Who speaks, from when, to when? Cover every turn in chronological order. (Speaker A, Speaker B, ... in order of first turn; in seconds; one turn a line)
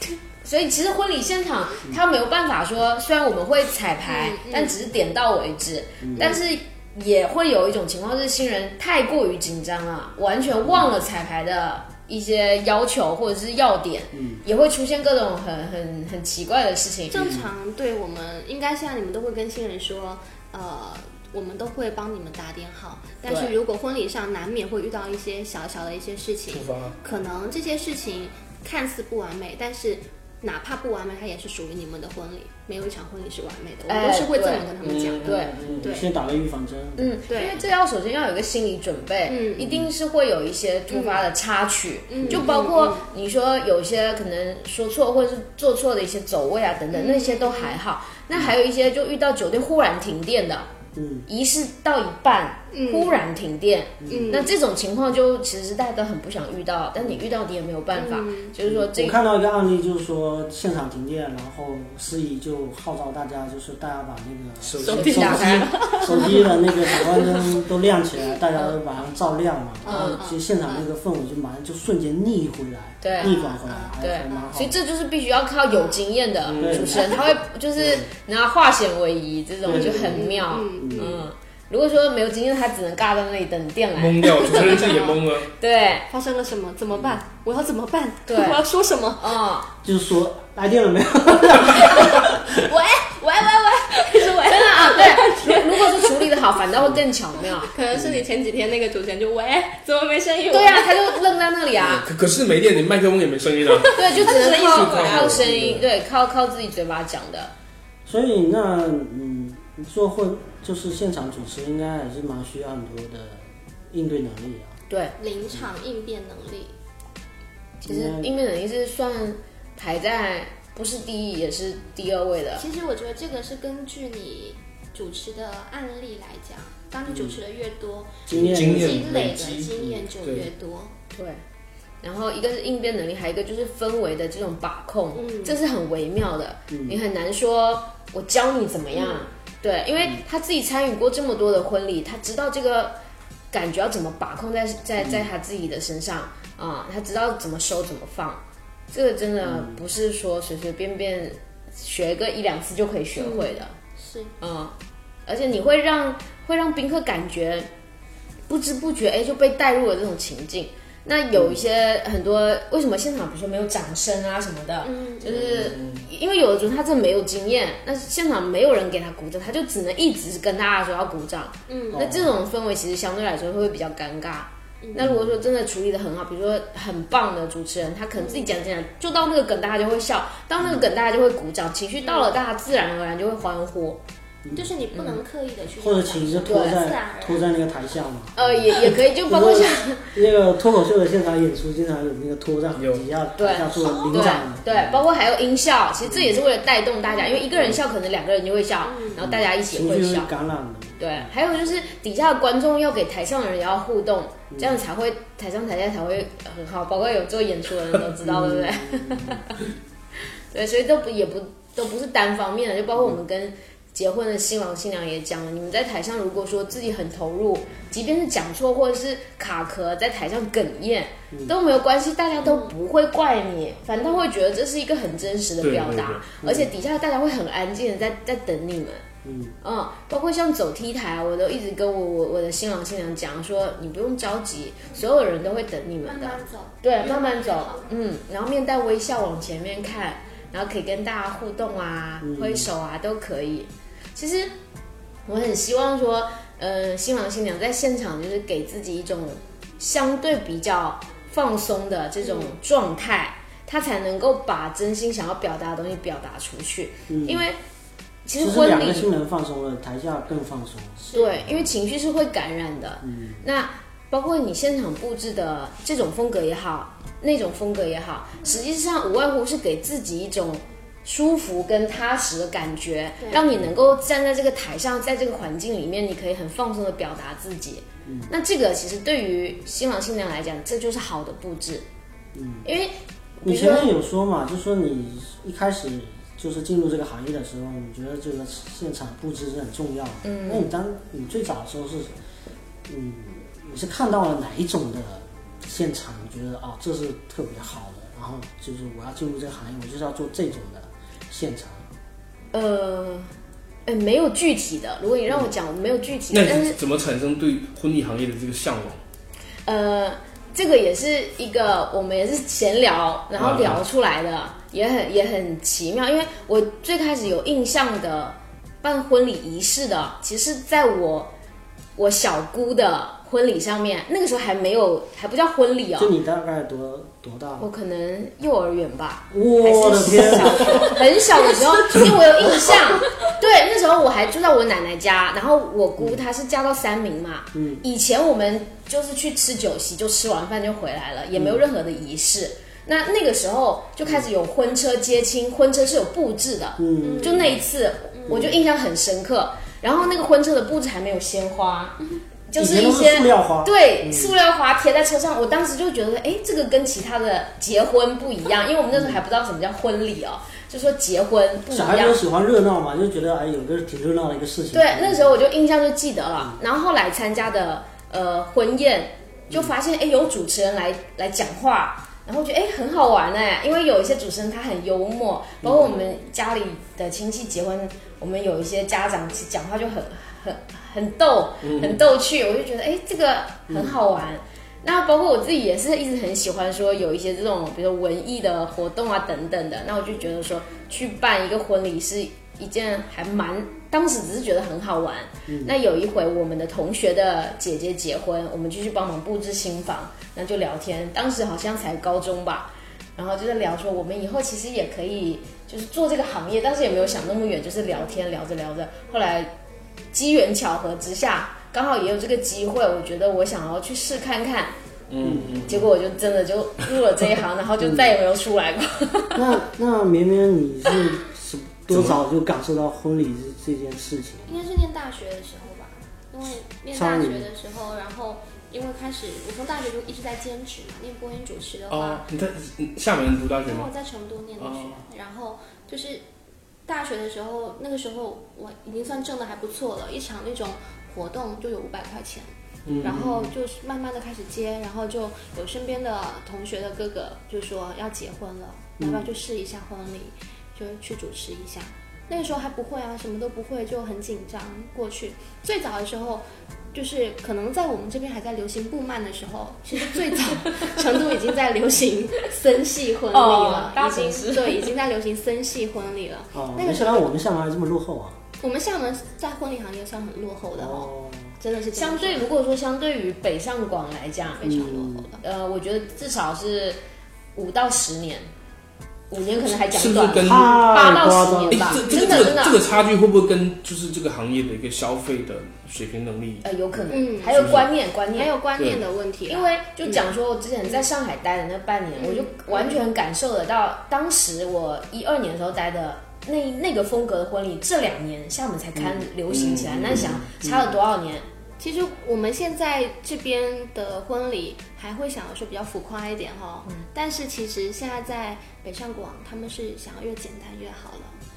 Speaker A: 0.4-17.4
Speaker B: 4.0-4.8
Speaker C: 6.0-6.4
Speaker C: 10.6-10.9
Speaker C: 14.1-14.4
Speaker B: 17.1-36.1
Speaker A: 23.2-23.5
Speaker D: 26.5-26.9
Speaker A: 33.9-34.7
Speaker D: 34.8-35.9
Speaker A: 35.2-35.5
Speaker C: 35.6-37.2
Speaker A: 37.0-50.7
Speaker B: 37.3-37.6
Speaker B: 39.3-39.8
Speaker B: 40.9-41.2
Speaker B: 42.1-43.0
Speaker C: 42.2-42.5
Speaker B: 46.9-47.8
Speaker C: 50.9-51.3
Speaker A: 51.3-59.1
Speaker B: 52.7-53.2
Speaker C: 54.0-54.5
Speaker B: 54.1-54.5
Speaker B: 57.9-58.5
Speaker C: 58.6-74.8
Speaker D: 64.6-65.7
Speaker B: 64.8-67.5
Speaker A: 64.9-66.4
Speaker B: 69.8-70.8
Speaker A: 69.9-70.2
Speaker A: 73.0-73.3
Speaker B: 73.1-74.6
Speaker A: 74.0-84.9
Speaker B: 75.7-76.0
Speaker D: 76.4-77.0
Speaker C: 76.6-78.1
Speaker C: 79.6-81.2
Speaker B: 79.7-81.2
Speaker D: 84.0-85.5
Speaker B: 84.3-85.2
Speaker A: 85.6-86.0
Speaker B: 86.1-89.4
Speaker A: 88.3-88.6
Speaker A: 89.2-89.7
Speaker C: 89.8-92.6
Speaker B: 91.7-96.3
Speaker A: 94.5-97.7
Speaker B: 97.6-101.2
Speaker C: 97.9-98.2
Speaker A: 100.5-102.1
Speaker D: 101.8-105.5
Speaker B: 103.7-105.4
Speaker A: 103.9-107.5
Speaker C: 105.3-105.9
Speaker C: 108.0-114.8
Speaker A: 114.9-115.1
Speaker B: 115.2-116.7
Speaker A: 117.8-122.6
Speaker C: 117.8-118.3
Speaker B: 122.6-130.9
Speaker C: 127.1-127.4
Speaker C: 128.3-129.2
Speaker D: 128.3-130.5
Speaker C: 129.8-130.0
Speaker A: 131.1-131.4
Speaker A: 132.0-143.0
Speaker B: 135.1-135.6
Speaker C: 136.7-137.0
Speaker B: 138.9-139.2
Speaker A: 143.5-153.7
Speaker C: 145.0-145.3
Speaker C: 149.4-149.8
Speaker B: 153.2-154.3
Speaker A: 154.4-154.7
Speaker A: 155.2-157.7
Speaker A: 158.5-184.0
Speaker C: 161.3-161.6
Speaker B: 164.8-165.5
Speaker C: 165.3-165.8
Speaker D: 165.7-166.0
Speaker B: 171.7-172.1
Speaker C: 171.9-172.3
Speaker B: 174.8-175.1
Speaker C: 174.9-175.4
Speaker B: 178.2-178.5
Speaker B: 182.0-182.3
Speaker C: 184.4-184.7
Speaker B: 184.5-187.5
Speaker A: 184.9-185.2
Speaker C: 185.8-195.0
Speaker A: 186.4-186.8
Speaker A: 188.3-190.1
Speaker D: 192.8-193.0
Speaker A: 193.3-200.3
Speaker B: 193.7-194.4
Speaker C: 196.0-196.4
Speaker C: 197.5-197.8
Speaker B: 198.8-199.2
Speaker C: 199.2-201.3
Speaker A: 201.0-209.6
Speaker C: 204.5-204.8
Speaker C: 208.2-209.4
Speaker A: 210.5-229.0
Speaker B: 222.4-222.7
Speaker D: 225.6-226.2
Speaker C: 226.4-226.7
Speaker C: 229.2-229.6
Speaker A: 229.6-244.5
Speaker B: 236.0-237.9
Speaker C: 242.2-242.7
Speaker A: 245.2-257.6
Speaker B: 252.2-252.5
Speaker C: 257.1-257.4
Speaker A: 258.2-259.1
Speaker C: 258.4-261.7
Speaker B: 261.0-261.4
Speaker A: 261.1-281.8
Speaker C: 263.0-263.4
Speaker C: 278.0-278.3
Speaker C: 282.3-282.6
Speaker A: 282.6-283.9
Speaker C: 283.4-292.1
Speaker A: 290.2-290.7
Speaker C: 292.9-301.9
Speaker A: 302.5-303.3
Speaker A: 303.9-306.8
Speaker D: 306.3-309.0
Speaker A: 309.6-321.3
Speaker D: 313.4-313.8
Speaker A: 321.9-326.1
Speaker C: 326.0-327.7
Speaker A: 327.6-362.2
Speaker C: 329.3-331.0
Speaker C: 337.5-337.8
Speaker C: 341.3-341.6
Speaker C: 346.8-347.6
Speaker B: 347.0-347.5
Speaker C: 348.3-348.6
Speaker C: 352.6-354.3
Speaker C: 358.9-359.2
Speaker C: 361.7-365.3
Speaker A: 364.7-409.5
Speaker C: 375.6-375.9
Speaker D: 381.6-382.0
Speaker C: 383.7-384.0
Speaker C: 395.5-395.7
Speaker A: 410.1-414.7
Speaker D: 415.1-415.8
Speaker C: 415.2-415.8
Speaker A: 415.6-419.6
Speaker C: 417.8-418.2
Speaker C: 419.3-424.6
Speaker D: 421.9-422.2
Speaker B: 424.5-432.2
Speaker C: 426.9-427.5
Speaker D: 431.9-433.9
Speaker B: 433.6-436.2
Speaker D: 434.6-435.0
Speaker B: 436.9-442.5
Speaker D: 442.8-443.2
Speaker C: 442.9-443.5
Speaker B: 443.0-467.3
Speaker C: 449.0-449.3
Speaker A: 460.6-461.0
Speaker A: 463.3-464.9
Speaker C: 466.5-468.4
Speaker B: 468.6-472.5
Speaker C: 470.7-471.5
Speaker A: 471.9-474.8
Speaker B: 474.6-475.4
Speaker C: 474.6-475.3
Speaker A: 475.4-477.0
Speaker A: 477.5-478.5
Speaker A: 479.3-482.8
Speaker D: 479.9-480.9
Speaker C: 480.4-482.4
Speaker D: 481.7-486.6
Speaker A: 486.6-488.5
Speaker B: 487.1-490.3
Speaker D: 487.5-487.9
Speaker D: 488.8-489.0
Speaker A: 489.5-501.4
Speaker B: 492.2-493.0
Speaker C: 498.9-499.2
Speaker D: 499.5-500.4
Speaker C: 500.1-501.0
Speaker B: 501.8-511.4